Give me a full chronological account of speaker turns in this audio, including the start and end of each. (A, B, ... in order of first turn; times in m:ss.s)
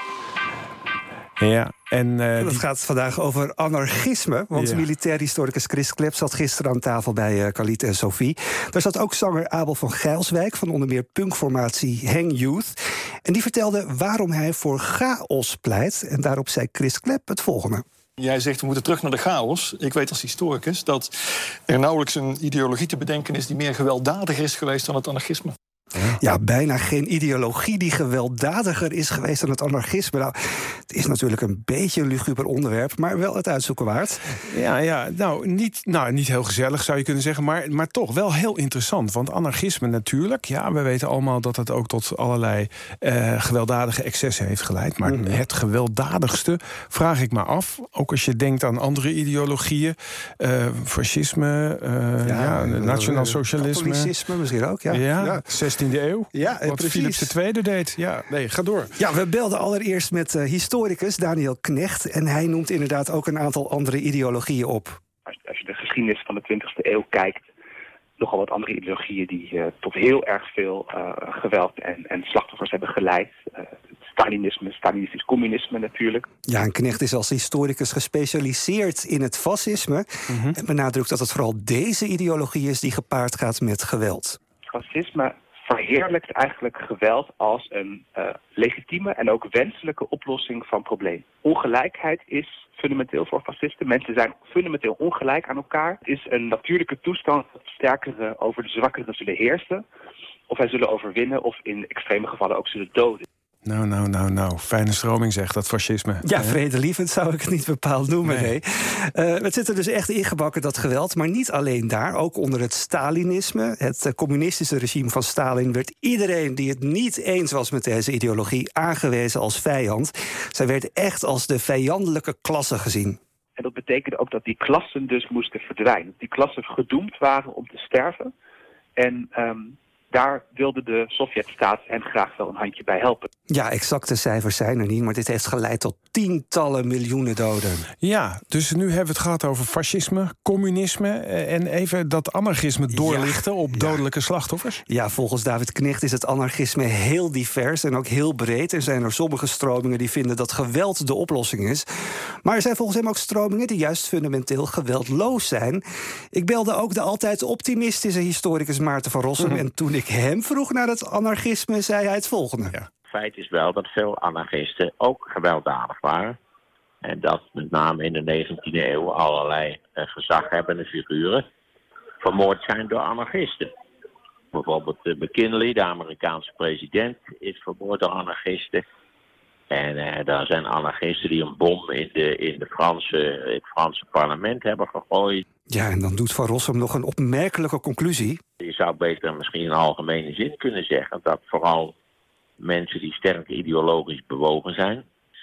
0:01.4-0:02.6 A
0:02.4-0:17.8 B
0:04.6-0:04.9 A
0:18.2-0:21.1 C
0:21.7-0:25.6 C
0:26.2-0:30.4 B
0:30.9-0:34.3 B
0:34.5-0:54.1 A
0:45.1-0:45.4 B
0:52.2-0:55.4 B
0:54.9-0:59.0 A
0:56.3-0:57.3 B
0:59.0-1:05.0 B
1:05.3-1:07.5 D
1:08.2-1:16.2 D
1:16.5-1:24.4 B
1:20.3-1:20.6 A
1:24.7-1:39.8 D
1:40.5-1:43.3 D
1:43.6-1:46.6 A
1:46.2-2:03.2 B
1:48.2-1:48.5 A
2:03.6-2:08.3 D
2:09.0-2:13.3 D
2:13.5-2:17.9 B
2:18.0-2:24.8 A
2:22.9-2:24.0 B
2:24.9-2:31.8 B
2:32.4-2:42.8 B
2:43.1-2:46.4 E
2:47.0-2:51.4 E
2:52.2-2:53.7 E
2:54.5-2:58.8 E
2:59.7-3:05.4 E
3:05.7-3:08.4 B
3:08.6-3:11.9 E
3:12.6-3:15.0 E